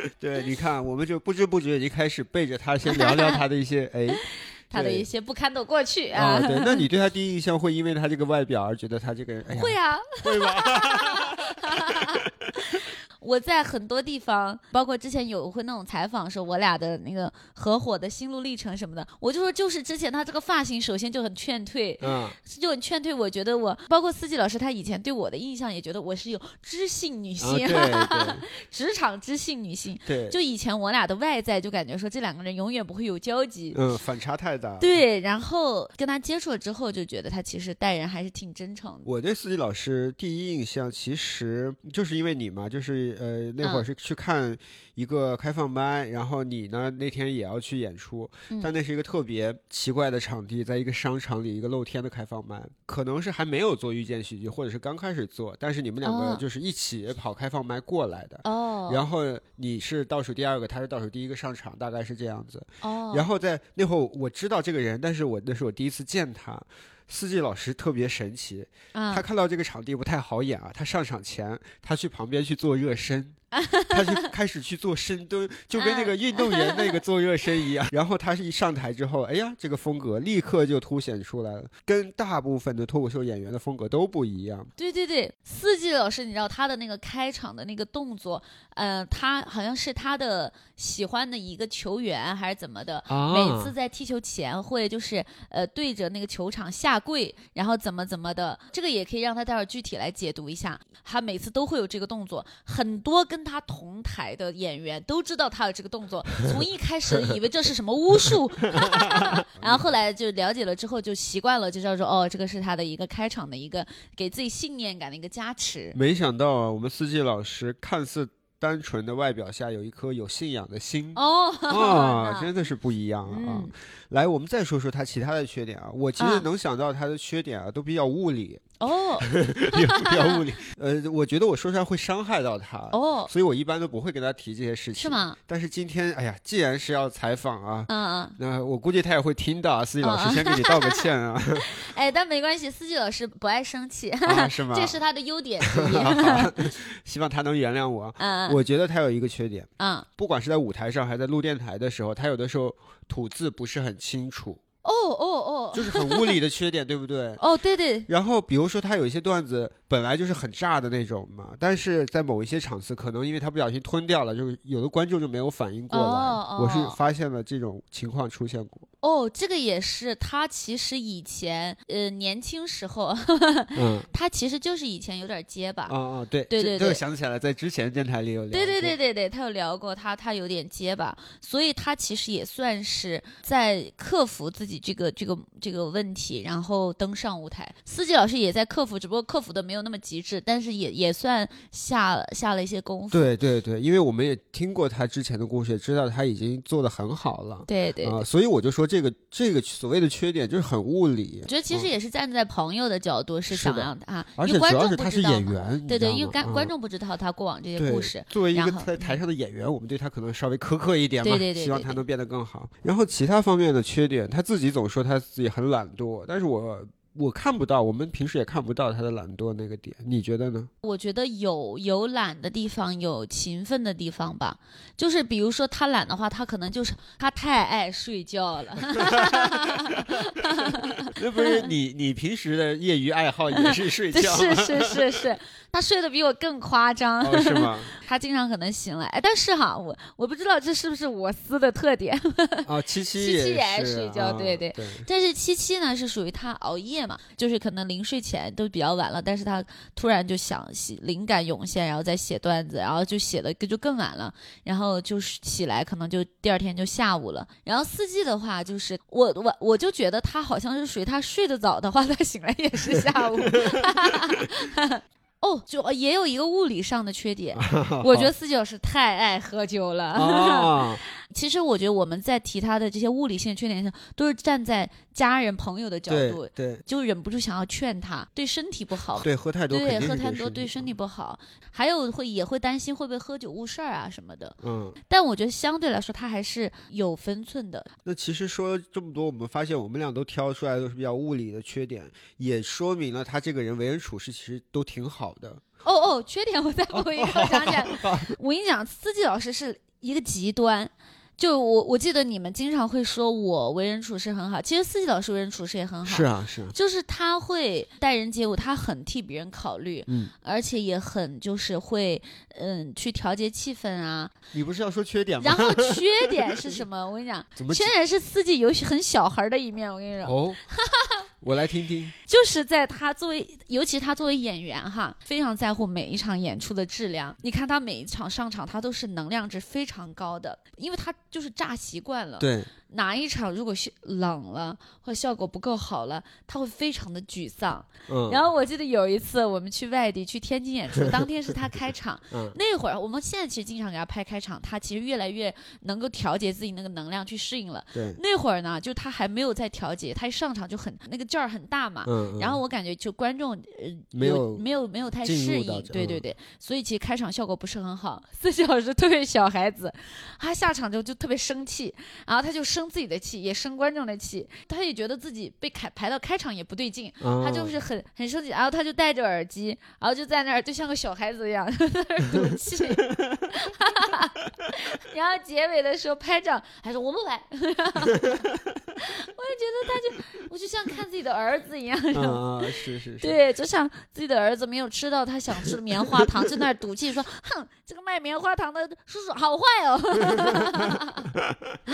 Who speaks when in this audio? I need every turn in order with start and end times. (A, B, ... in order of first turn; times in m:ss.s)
0:00.2-0:05.1 A
0:02.9-0:03.4 B
0:04.7-0:06.8 B
0:06.2-0:12.1 A
0:09.5-0:33.8 B
0:22.0-0:22.4 A
0:27.4-0:28.4 A
0:30.1-0:30.4 A
0:33.7-0:35.0 A
0:34.8-0:39.1 B
0:39.0-1:24.7 A
0:56.0-0:56.4 B
0:58.4-0:59.0 B
1:02.8-1:03.2 B
1:08.9-1:09.2 B
1:13.5-1:14.2 B
1:15.8-1:16.9 B
1:24.8-1:56.0 B
1:33.1-1:33.7 A
1:48.8-1:49.0 A
1:49.6-1:49.8 A
1:55.9-2:21.8 A
2:01.2-2:02.5 B
2:03.3-2:03.7 B
2:06.2-2:06.5 B
2:08.8-2:10.4 B
2:12.9-2:13.3 B
2:15.0-2:15.4 B
2:17.9-2:18.4 B
2:20.0-2:21.0 B
2:21.6-2:26.6 B
2:24.2-2:25.0 A
2:25.6-2:34.6 A
2:28.2-2:28.6 B
2:29.8-2:30.1 B
2:34.8-2:36.3 B
2:35.7-2:37.4 A
2:37.4-2:38.1 B
2:38.1-2:48.9 A
2:45.9-2:47.0 B
2:49.0-2:56.0 B
2:53.8-2:54.1 A
2:55.9-2:59.0 A
2:56.5-2:57.0 B
2:58.5-3:13.3 B
3:13.1-3:21.9 A
3:17.7-3:18.2 B
3:21.5-3:29.2 B
3:23.5-3:26.7 A
3:27.8-3:40.7 A
3:31.2-3:32.0 B
3:40.8-3:51.7 B
3:49.0-3:49.5 A
3:51.2-3:55.2 A
3:53.6-4:44.6 B
3:57.2-3:57.9 A
4:02.6-4:05.1 A
4:22.9-4:23.9 A
4:27.6-4:28.3 A
4:30.2-4:31.0 A
4:36.1-4:36.8 A
4:39.2-4:40.9 A
4:44.6-4:45.0 A
4:45.1-4:47.9 B
4:48.1-4:55.6 A
4:55.8-5:14.3 B
4:57.0-4:58.4 A
5:06.0-5:06.8 A
5:10.1-5:10.3 A
5:14.5-5:16.8 A
5:15.4-5:21.2 B
5:17.6-5:17.9 A
5:20.3-5:20.6 A
5:21.4-5:22.2 A
5:22.3-6:18.5 B
5:32.4-5:32.7 A
5:38.1-5:38.4 A
5:42.3-5:42.6 A
5:47.9-5:48.2 A
5:52.1-5:52.6 A
5:54.1-5:54.6 A
5:55.2-5:56.2 A
6:07.2-6:07.8 A
6:19.0-6:31.3 B
6:22.1-6:23.4 A
6:30.4-6:31.8 A